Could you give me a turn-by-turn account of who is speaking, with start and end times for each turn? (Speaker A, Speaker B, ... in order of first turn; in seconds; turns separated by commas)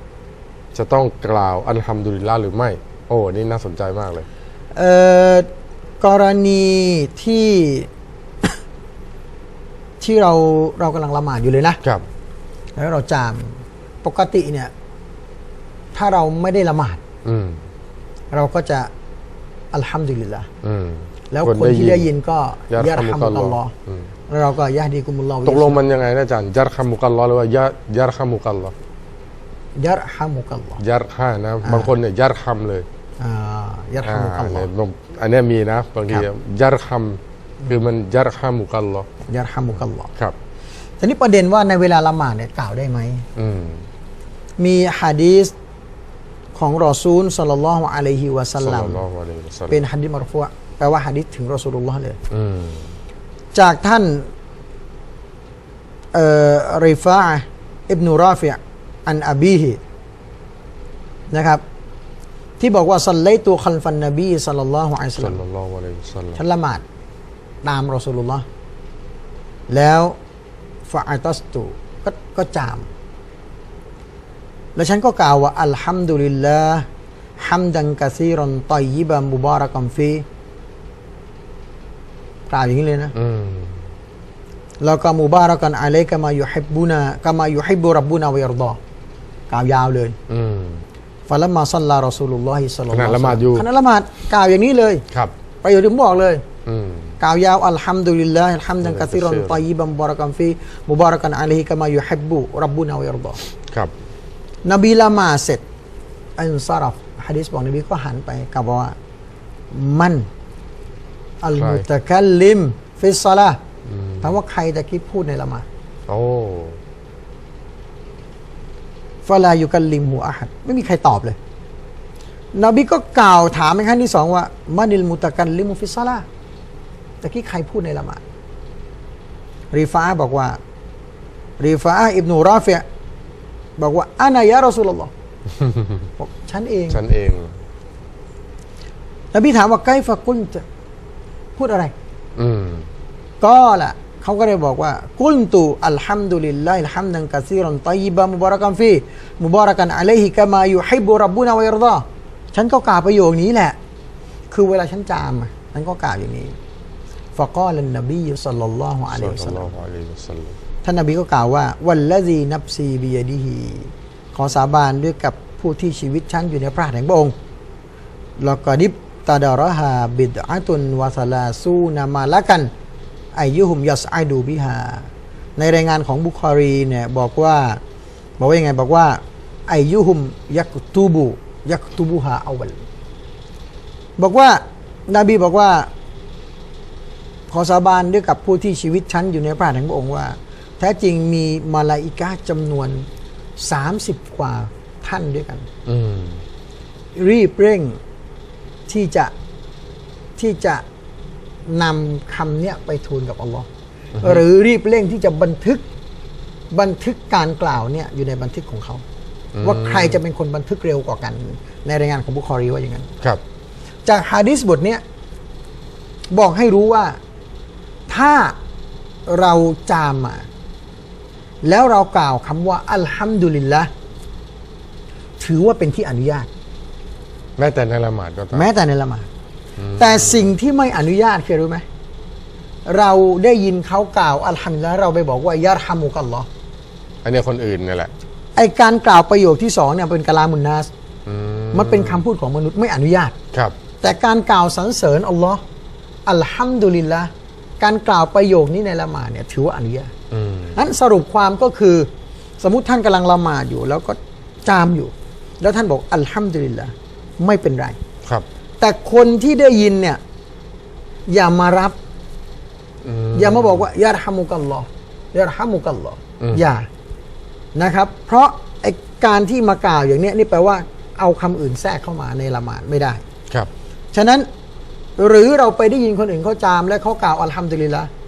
Speaker A: 0.7-4.2, Speaker B: 4.7-5.5, Speaker B: 6.0-7.9, Speaker B: 10.0-11.8, Speaker B: 12.8-14.7, Speaker B: 15.9-17.0, Speaker A: 17.2-17.6, Speaker B: 18.3-18.9, Speaker B: 19.7-20.5, Speaker A: 20.6-22.1, Speaker B: 21.3-23.7, Speaker A: 22.7-24.0, Speaker B: 24.3-25.8, Speaker A: 25.4-28.7, Speaker B: 29.8-30.8, Speaker A: 30.8-32.9, Speaker B: 31.6-31.9, Speaker B: 33.2-34.7, Speaker A: 34.0-39.1, Speaker B: 39.3-40.1, Speaker B: 41.0-43.2, Speaker A: 43.4-43.8, Speaker B: 44.6-45.5, Speaker B: 46.5-49.0, Speaker A: 48.6-49.8, Speaker B: 49.7-52.2, Speaker A: 52.3-52.9, Speaker B: 53.5-54.3, Speaker B: 56.1-59.8, Speaker B: 61.3-61.6, Speaker B: 62.6-65.4, Speaker A: 65.2-66.4, Speaker B: 66.3-66.8, Speaker B: 67.6-68.4, Speaker B: 69.7-70.2, Speaker B: 70.9-72.9, Speaker B: 74.8-76.8, Speaker B: 77.4-80.2, Speaker B: 82.5-83.1, Speaker A: 83.1-83.8, Speaker B: 84.8-88.8, Speaker B: 89.5-90.2, Speaker A: 90.3-90.8, Speaker B: 91.3-95.0, Speaker A: 92.9-93.7, Speaker B: 95.6-96.4, Speaker A: 96.7-97.2, Speaker B: 97.2-103.4, Speaker A: 98.8-99.6, Speaker B: 104.6-105.6, Speaker B: 106.4-108.9, Speaker B: 109.7-110.3, Speaker B: 111.4-113.6, Speaker A: 111.5-111.8, Speaker A: 113.9-114.2, Speaker B: 114.2-115.7, Speaker A: 116.1-116.8, Speaker B: 119.2-121.4, Speaker B: 122.5-126.2, Speaker B: 127.2-128.2, Speaker B: 129.7-130.6, Speaker B: 131.6-132.8, Speaker B: 133.8-135.1, Speaker B: 136.2-137.0, Speaker A: 136.9-137.5, Speaker B: 139.3-140.6, Speaker B: 141.6-141.9, Speaker A: 142.4-142.9, Speaker B: 143.4-153.8, Speaker B: 154.5-156.5, Speaker B: 157.3-159.7, Speaker A: 159.1-160.6, Speaker B: 160.8-167.3, Speaker B: 168.4-172.7, Speaker B: 173.3-177.8, Speaker B: 178.4-182.8, Speaker B: 184.2-185.9, Speaker B: 187.5-193.1, Speaker B: 193.6-195.7, Speaker A: 195.8-196.4, Speaker B: 197.2-198.0, Speaker B: 198.9-199.3, Speaker B: 200.4-200.8, Speaker B: 201.7-203.7, Speaker B: 204.2-205.8, Speaker B: 206.7-209.0, Speaker A: 209.5-210.2, Speaker B: 209.6-213.1, Speaker B: 214.1-215.0, Speaker B: 216.3-217.2, Speaker B: 218.1-218.5, Speaker B: 219.3-220.5, Speaker B: 221.6-223.9, Speaker B: 225.4-226.5, Speaker A: 227.6-228.7, Speaker B: 228.5-229.3, Speaker A: 229.8-230.5, Speaker B: 230.0-231.8, Speaker B: 232.8-236.5, Speaker A: 237.2-238.1, Speaker B: 238.6-240.9, Speaker A: 241.2-242.2, Speaker B: 241.7-243.3, Speaker B: 244.0-245.6, Speaker B: 246.2-250.1, Speaker A: 250.3-250.8, Speaker B: 250.7-252.1, Speaker B: 252.6-257.9, Speaker B: 258.8-260.2, Speaker B: 261.3-261.9, Speaker A: 263.0-263.9, Speaker B: 263.3-266.9, Speaker B: 267.7-273.2, Speaker B: 274.1-274.5, Speaker B: 275.2-278.1